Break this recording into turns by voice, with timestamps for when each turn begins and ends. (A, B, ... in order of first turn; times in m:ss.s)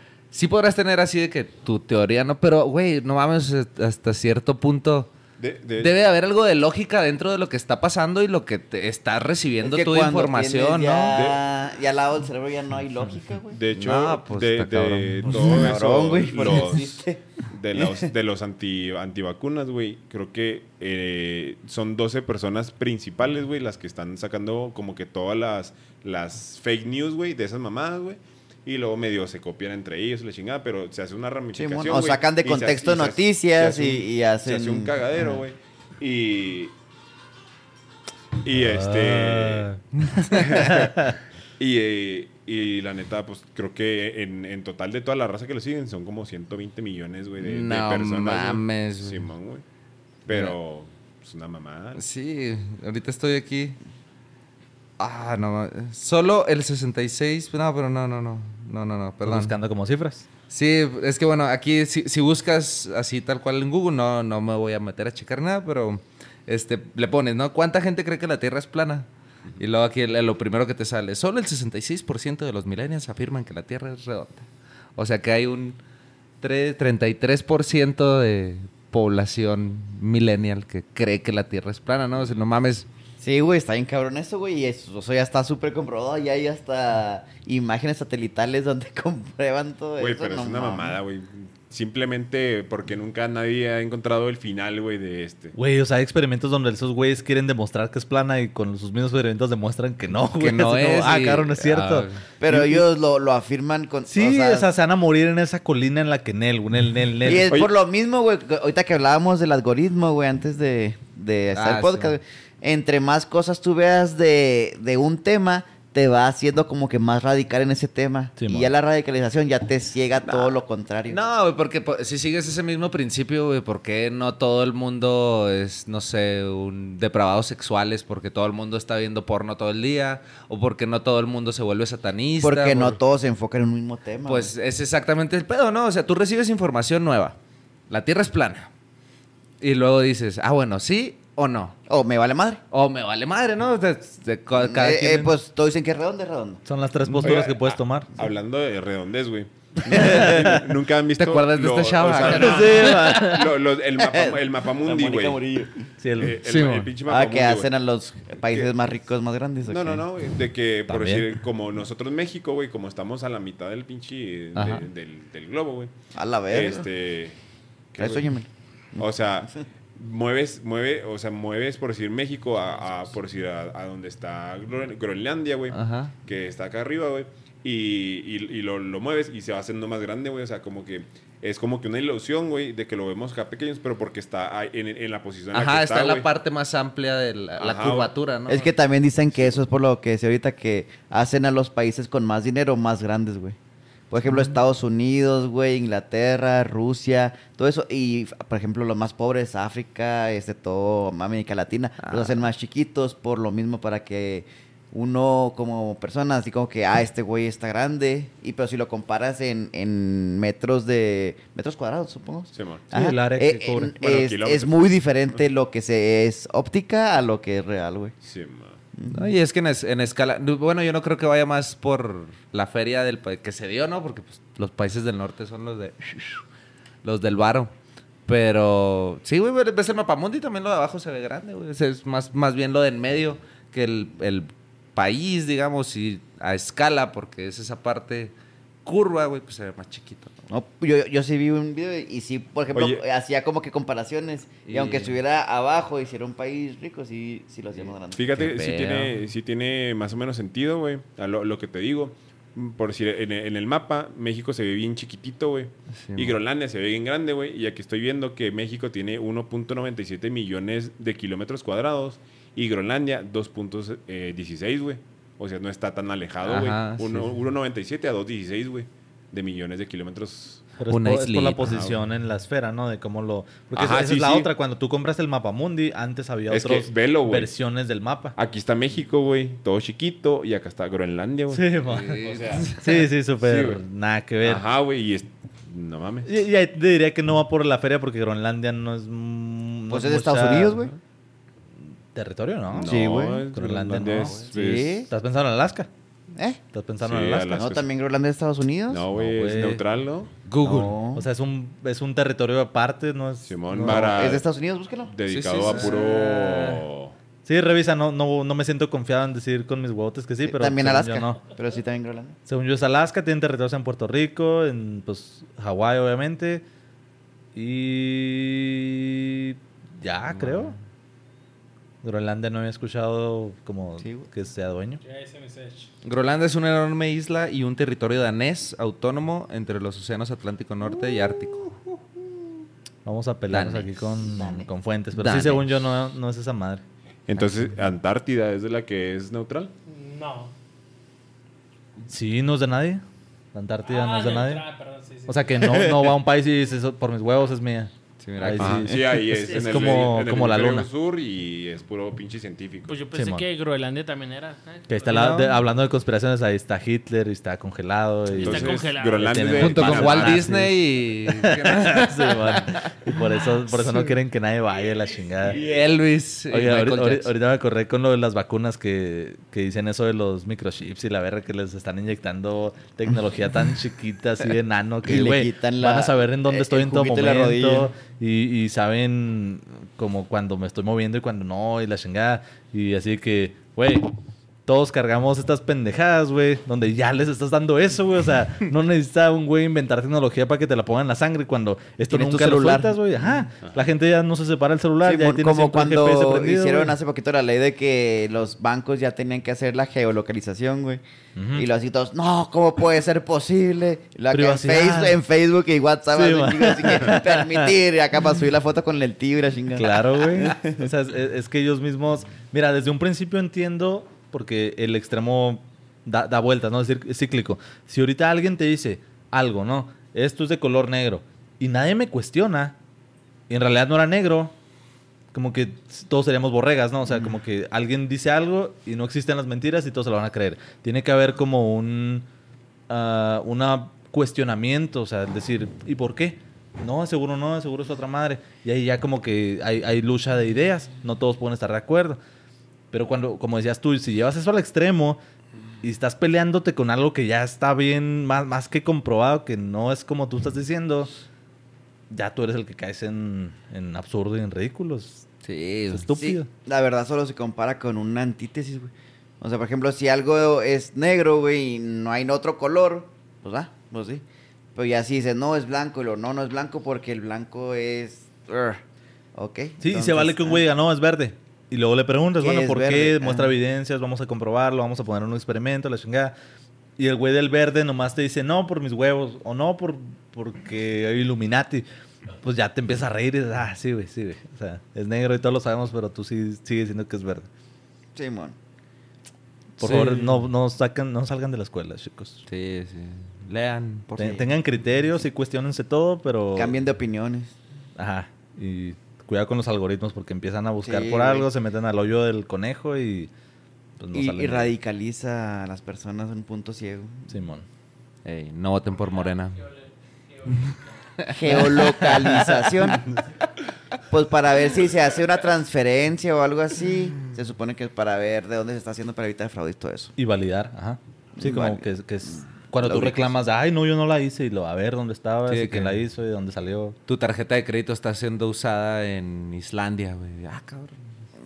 0:00.3-0:05.1 A
0:05.4-0:05.9 B
0:05.8-0:11.2 A
0:09.6-0:13.6 C
0:11.1-0:11.4 B
0:13.5-0:36.7 B
0:13.7-0:15.7 A
0:15.3-0:17.2 C
0:17.8-0:18.1 C
0:31.5-0:35.2 C
0:38.4-0:49.6 B
0:38.6-0:39.8 D
0:40.0-0:40.3 A
0:40.3-0:41.1 D
0:47.4-0:49.3 A
0:50.3-0:52.0 B
0:50.3-0:50.6 A
0:52.0-0:53.8 A
0:55.0-0:59.5 A
0:59.2-1:00.3 D
1:00.5-1:15.8 A
1:16.4-1:22.9 A
1:22.1-1:22.4 B
1:23.2-1:31.0 C
1:30.0-1:35.6 B
1:35.6-1:42.9 D
1:40.4-1:42.2 A
1:42.4-1:44.7 C
1:44.1-1:47.5 D
1:47.2-2:01.2 C
1:47.3-1:47.7 B
1:51.5-1:52.1 A
1:58.4-1:58.7 D
2:00.3-2:00.6 A
2:01.1-2:13.0 A
2:12.4-2:14.5 C
2:14.2-2:17.4 A
2:17.9-2:18.7 A
2:19.6-2:21.8 A
2:21.9-2:22.6 C
2:22.7-2:25.3 A
2:24.5-2:26.6 C
2:26.7-2:28.1 D
2:27.1-2:27.4 A
2:27.2-2:35.4 B
2:29.9-2:30.6 C
2:29.9-2:30.6 D
2:31.2-2:33.2 A
2:32.3-2:33.5 D
2:34.0-2:35.8 C
2:36.0-2:36.4 D
2:36.1-2:37.7 B
2:36.4-2:36.9 A
2:37.0-2:40.0 C
2:38.4-2:38.7 B
2:39.6-2:45.9 B
2:40.9-2:41.3 D
2:44.6-2:44.9 A
2:46.1-2:46.9 C
2:46.5-2:47.4 B
2:47.9-2:48.3 B
2:48.0-2:49.0 C
2:49.0-3:06.3 B
2:55.7-2:56.1 A
3:05.5-3:08.7 A
3:07.6-3:08.1 B
3:08.5-3:13.6 C
3:09.3-3:09.6 B
3:14.1-3:38.1 C
3:14.3-3:14.6 A
3:22.0-3:22.4 A
3:32.5-3:32.9 B
3:32.9-3:34.0 D
3:33.8-3:35.4 B
3:38.2-3:38.8 B
3:39.0-3:39.3 C
3:39.1-3:46.4 A
3:47.0-3:47.7 A
3:48.3-3:58.3 A
3:58.8-4:00.3 A
4:00.5-4:08.4 C
4:02.7-4:03.0 B
4:04.7-4:05.2 A
4:08.1-4:30.7 B
4:08.4-4:09.2 A
4:16.0-4:16.4 A
4:26.4-4:27.3 A
4:30.8-4:38.4 D
4:30.9-4:31.8 A
4:33.8-4:34.5 B
4:36.5-4:37.5 B
4:38.4-4:42.9 B
4:41.5-4:44.6 D
4:41.9-4:42.8 A
4:43.4-4:43.8 B
4:44.4-4:46.3 B
4:46.2-4:50.9 D
4:49.9-4:50.9 C
4:52.1-4:54.6 D
4:52.7-4:55.1 B
4:52.8-4:53.5 C
4:54.5-4:55.1 C
4:55.1-4:55.9 D
4:56.3-4:56.6 C
4:56.7-4:57.6 D
4:57.0-4:57.9 B
4:57.5-4:59.1 C
4:58.9-5:00.3 B
4:59.1-4:59.8 D
5:00.5-5:01.0 A
5:00.6-5:01.3 C
5:01.1-5:04.3 D
5:03.5-5:04.4 B
5:03.8-5:05.2 C
5:05.1-5:07.1 B
5:05.3-5:05.9 A
5:05.6-5:06.8 D
5:07.4-5:11.4 D
5:10.5-5:12.4 C
5:12.5-5:16.6 D
5:17.5-5:20.8 D
5:20.3-5:20.8 A
5:22.0-5:25.0 D
5:24.0-5:24.3 C
5:25.0-5:25.9 E
5:26.0-5:31.7 A
5:30.8-5:31.7 C
5:33.0-5:36.8 D
5:33.5-5:33.9 A
5:34.1-5:34.7 C
5:35.1-5:35.7 A
5:37.3-5:39.7 B
5:39.9-5:40.5 E
5:42.1-5:43.0 D
5:43.5-5:44.6 D
5:43.9-5:45.9 E
5:45.3-5:50.9 D
5:48.2-5:48.9 A
5:48.6-5:53.0 B
5:52.9-5:55.3 E
5:53.1-5:53.5 D
5:54.9-6:05.7 D
5:55.1-5:55.6 A
5:58.4-6:00.6 B
5:58.4-5:59.5 E
5:59.6-6:03.0 A
6:05.5-6:07.3 A
6:06.5-6:24.1 D
6:15.0-6:17.9 C
6:24.7-6:37.0 D
6:32.1-6:32.9 C
6:35.0-6:41.0 C
6:41.4-6:41.7 D
6:41.6-6:50.8 C
6:44.3-6:45.2 D
6:46.1-6:47.8 D
6:49.7-7:02.8 D
7:03.5-7:04.5 D
7:05.3-7:12.3 D
7:12.9-7:22.2 D
7:22.9-7:25.2 D
7:25.8-7:31.1 D
7:32.1-7:35.3 D
7:35.4-7:36.1 A
7:35.9-7:36.5 D
7:36.2-7:44.2 C
7:44.8-7:48.8 C
7:49.4-7:50.6 C
7:49.8-7:56.4 D
7:52.4-7:53.5 C
7:57.0-8:01.8 D
8:02.4-8:07.5 D
8:08.2-8:08.6 C
8:09.8-8:12.4 D
8:09.8-8:10.4 A
8:12.5-8:14.5 A
8:14.2-8:16.8 D
8:16.6-8:17.6 C
8:18.0-8:23.3 D
8:20.8-8:21.5 C
8:24.0-8:24.7 D
8:24.1-8:27.3 C
8:27.3-8:27.7 D
8:28.2-8:29.7 A
8:30.3-8:30.9 E
8:30.5-8:32.3 A
8:31.3-8:33.1 C
8:32.2-8:33.0 D
8:34.1-8:40.1 C
8:40.2-8:47.0 D
8:41.4-8:41.8 C
8:42.8-8:43.3 C
8:45.5-8:46.0 A
8:47.1-8:51.0 A